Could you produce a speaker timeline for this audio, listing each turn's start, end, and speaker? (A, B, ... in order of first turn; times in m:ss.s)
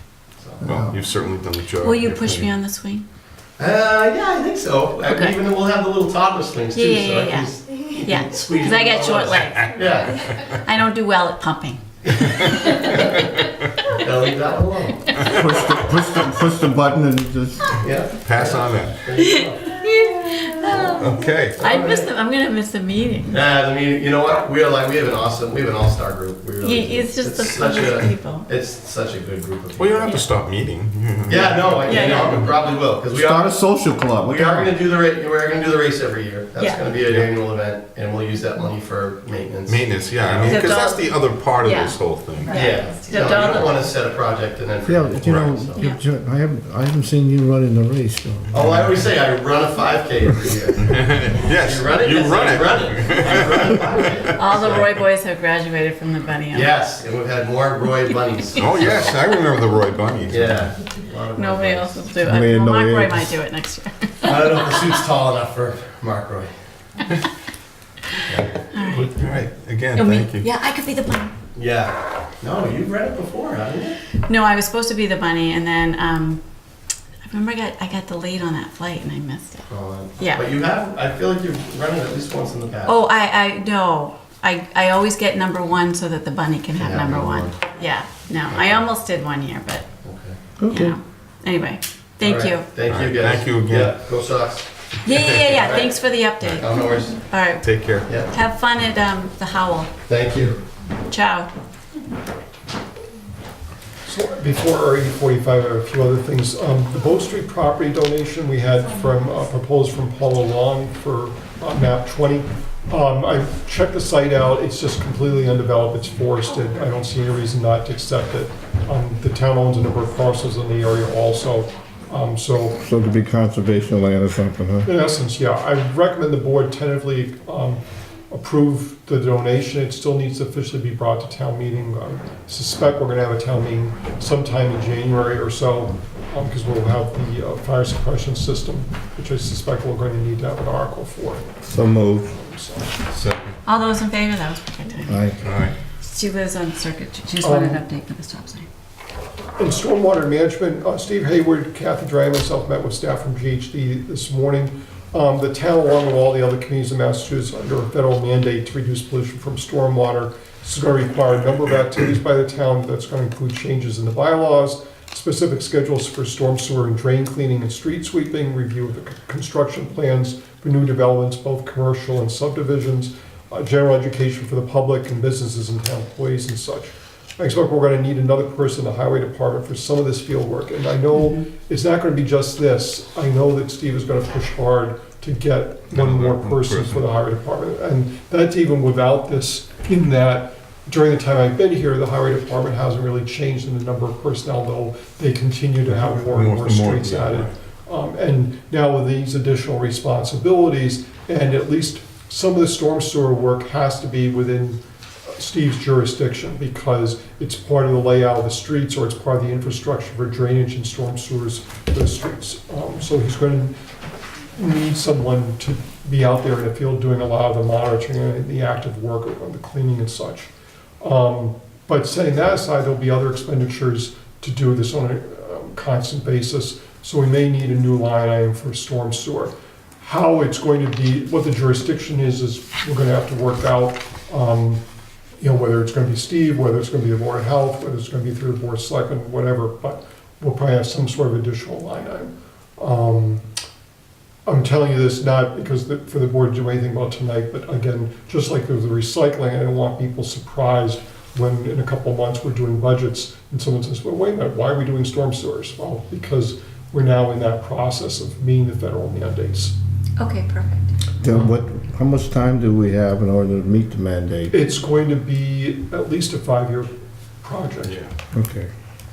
0:00.4-0:00.6 A
0:00.6-0:00.9 B
0:00.6-0:02.5 C
0:01.8-0:03.0 D
0:03.6-0:10.1 A
0:05.0-0:05.4 D
0:06.7-0:13.0 D
0:12.2-0:13.2 A
0:13.9-0:15.1 A
0:15.2-0:17.7 B
0:17.8-0:19.7 A
0:18.2-0:19.0 C
0:19.2-0:23.4 D
0:20.9-0:21.7 C
0:21.6-0:22.1 A
0:23.3-0:30.2 A
0:26.6-0:28.5 D
0:29.8-0:32.5 C
0:31.3-0:33.6 A
0:31.8-0:32.5 D
0:33.1-0:34.7 B
0:34.1-0:40.7 A
0:36.6-0:36.9 D
0:37.0-0:37.3 C
0:39.6-0:42.8 C
0:40.4-0:44.0 D
0:42.5-0:45.8 A
0:44.8-0:48.7 B
0:45.2-0:45.5 C
0:48.5-0:50.9 A
0:50.8-0:54.0 C
0:51.4-0:54.9 A
0:54.4-0:56.7 D
0:56.5-0:59.2 A
0:58.6-1:00.7 C
1:00.3-1:02.0 A
1:01.3-1:04.7 D
1:02.2-1:03.3 B
1:04.2-1:06.5 A
1:08.2-1:08.5 A
1:08.7-1:09.2 D
1:09.1-1:10.5 C
1:10.0-1:11.3 D
1:11.5-1:14.0 A
1:14.2-1:16.4 D
1:17.2-1:19.7 D
1:19.7-1:23.0 A
1:20.2-1:20.4 D
1:22.8-1:29.8 D
1:26.8-1:27.6 A
1:28.5-1:28.8 A
1:30.0-1:30.4 A
1:30.6-1:30.9 B
1:30.7-1:32.7 D
1:32.2-1:34.7 A
1:32.8-1:34.0 C
1:35.0-1:39.9 D
1:35.0-1:35.4 C
1:35.5-1:37.2 A
1:37.6-1:38.1 C
1:40.1-1:40.6 A
1:41.1-1:41.5 D
1:44.0-2:02.8 E
2:02.8-2:04.9 B
2:04.8-2:07.8 E
2:08.3-2:21.4 E
2:21.6-2:22.3 B
2:22.3-2:22.9 E
2:23.1-2:23.5 C
2:23.6-2:25.2 D
2:25.1-2:25.4 B
2:25.4-2:25.7 C
2:26.0-2:28.7 D
2:27.4-2:27.8 E
2:29.6-3:33.7 E
3:05.9-3:07.0 C
3:15.9-3:17.5 C
3:34.6-3:40.5 E
3:41.0-3:54.8 E
3:55.4-4:03.4 E
4:04.4-4:19.7 E
4:20.2-4:20.9 D
4:21.2-4:24.6 B
4:24.5-4:26.9 E
4:27.4-4:28.0 E
4:27.8-4:28.1 C
4:28.3-4:28.7 B